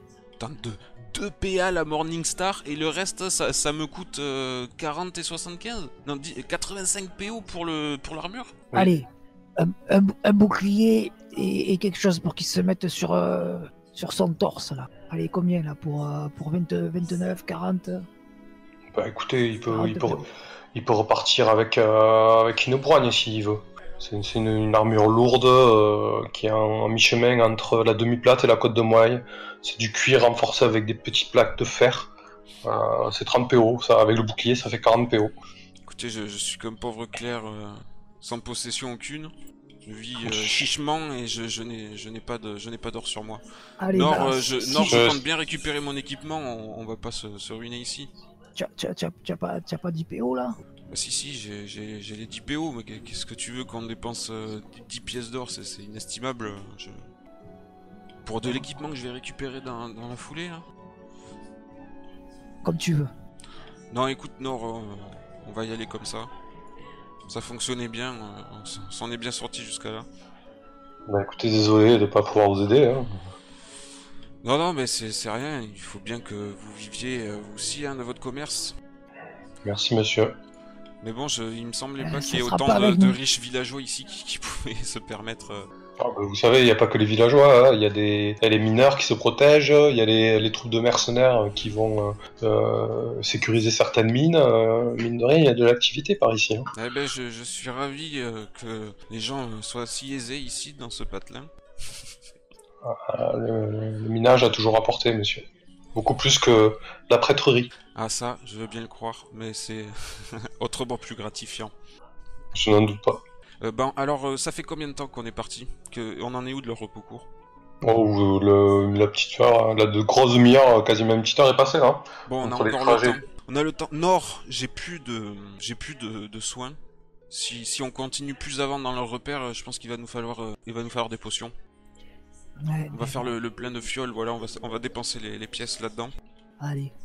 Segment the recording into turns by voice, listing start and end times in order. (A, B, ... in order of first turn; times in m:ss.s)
0:00.4-0:08.6 A
0:08.7-0:18.1 B
0:18.9-0:32.1 C
0:19.7-0:20.3 B
0:32.6-0:35.4 C
0:35.9-0:39.3 A
0:39.8-0:43.4 A
0:40.2-0:40.7 C
0:43.8-0:45.0 B
0:43.9-0:48.1 A
0:44.8-0:45.2 C
0:48.6-0:50.6 B
0:50.9-0:57.0 A
0:58.2-1:00.6 A
1:02.6-1:03.1 B
1:03.9-1:06.3 A
1:07.3-1:10.1 A
1:11.1-1:13.2 C
1:14.4-1:18.7 A
1:19.6-1:20.4 C
1:21.0-1:25.7 A
1:22.0-1:23.2 B
1:26.0-1:36.7 C
1:36.7-1:41.5 A
1:42.8-1:47.7 C
1:48.0-1:51.7 A
1:52.5-1:53.2 C
1:53.6-1:57.3 A
1:57.8-2:03.2 C
2:02.3-2:06.8 A
2:07.3-2:11.5 A
2:12.6-2:13.3 B
2:12.9-2:16.1 A
2:16.6-2:16.9 B